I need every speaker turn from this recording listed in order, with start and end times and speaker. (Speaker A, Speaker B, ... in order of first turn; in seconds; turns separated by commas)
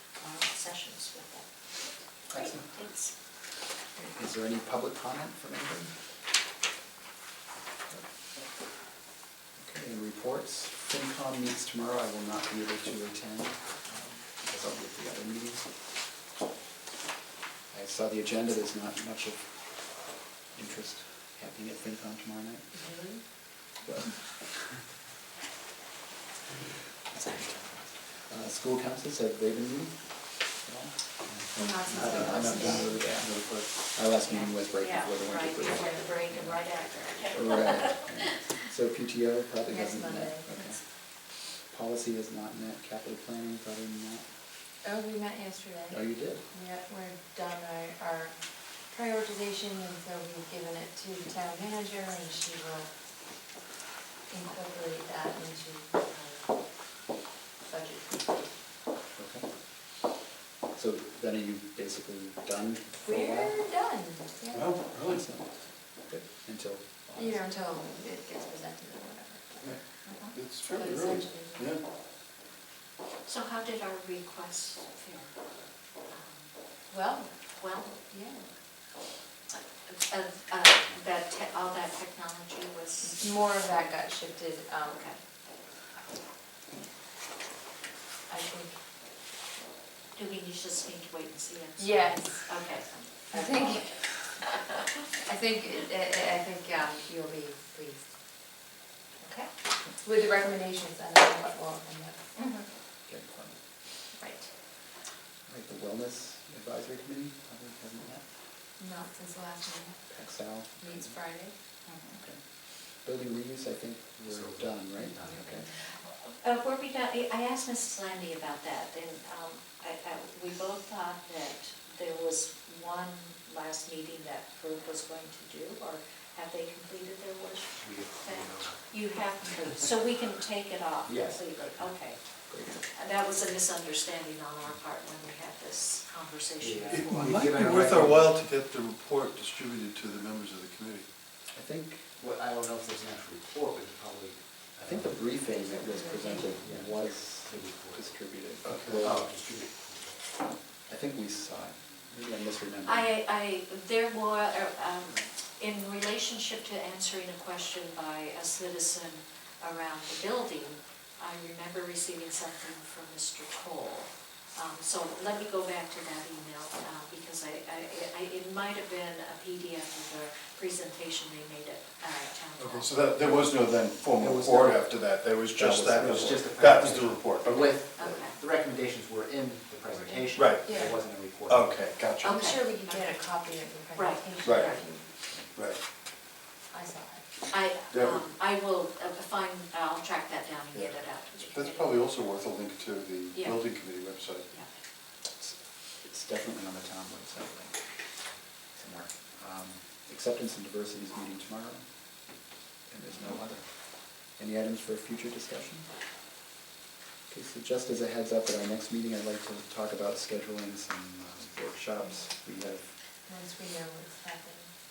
Speaker A: 0.2-1.5, Speaker A: 2.3-3.1, Speaker B: 2.3-2.6, Speaker B: 4.0-5.9, Speaker B: 9.6-15.7, Speaker B: 17.7-19.5, Speaker B: 20.5-22.7, Speaker C: 22.7-23.2, Speaker B: 23.9-24.8, Speaker B: 27.1-30.0, Speaker B: 30.6-31.0, Speaker D: 31.3-32.0, Speaker C: 31.5-33.0, Speaker B: 31.9-33.3, Speaker E: 31.9-33.7, Speaker B: 33.9-36.7, Speaker A: 34.2-38.1, Speaker B: 37.2-40.8, Speaker C: 39.7-40.7, Speaker B: 41.7-44.2, Speaker C: 44.8-46.0, Speaker B: 45.9-46.4, Speaker C: 46.5-48.3, Speaker C: 48.9-52.9, Speaker C: 54.3-56.5, Speaker C: 57.7-58.5, Speaker B: 59.2-59.4, Speaker B: 60.8-63.6, Speaker C: 63.0-64.7, Speaker E: 64.5-65.2, Speaker B: 65.0-65.5, Speaker B: 66.0-67.4, Speaker C: 67.2-69.8, Speaker A: 70.0-70.4, Speaker E: 70.3-71.8, Speaker C: 70.7-71.7, Speaker A: 73.2-75.3, Speaker A: 76.1-76.5, Speaker C: 76.9-77.3, Speaker A: 77.5-78.0, Speaker C: 78.0-78.5, Speaker A: 79.9-83.9, Speaker C: 83.2-85.1, Speaker A: 84.9-85.2, Speaker C: 88.3-88.8, Speaker A: 90.2-94.6, Speaker C: 91.8-92.5, Speaker C: 93.3-94.0, Speaker C: 95.3-98.1, Speaker A: 99.2-99.5, Speaker C: 100.0-102.2, Speaker A: 102.4-102.7, Speaker B: 103.1-103.6, Speaker C: 104.1-104.5, Speaker B: 105.5-108.2, Speaker C: 108.8-110.0, Speaker B: 110.1-111.2, Speaker C: 110.8-111.5, Speaker A: 111.9-112.2, Speaker B: 112.1-112.4, Speaker B: 113.0-115.7, Speaker D: 114.3-115.5, Speaker A: 116.0-137.5, Speaker D: 127.8-128.8, Speaker D: 131.1-131.5, Speaker B: 132.5-132.8, Speaker D: 136.6-138.3, Speaker E: 136.9-141.1, Speaker B: 141.5-142.2, Speaker D: 142.2-145.3, Speaker B: 144.8-149.3, Speaker C: 145.4-146.7, Speaker D: 146.6-148.0, Speaker E: 148.7-149.2, Speaker D: 149.0-150.2, Speaker B: 150.9-153.1, Speaker A: 152.8-172.9, Speaker E: 172.6-177.8, Speaker B: 174.2-174.9, Speaker B: 175.5-176.3, Speaker D: 176.0-181.7, Speaker A: 178.0-178.4, Speaker E: 180.3-180.8, Speaker C: 180.7-181.0, Speaker E: 181.4-182.4, Speaker A: 182.2-183.1, Speaker C: 182.2-185.1, Speaker A: 183.9-184.8, Speaker E: 184.4-184.8, Speaker C: 186.7-187.2, Speaker A: 187.5-192.0, Speaker E: 187.9-188.2, Speaker E: 190.7-194.5, Speaker A: 193.3-193.6, Speaker B: 195.4-197.8, Speaker B: 198.8-201.8, Speaker B: 202.9-203.7, Speaker B: 204.4-205.9, Speaker B: 207.3-212.9, Speaker C: 213.3-214.7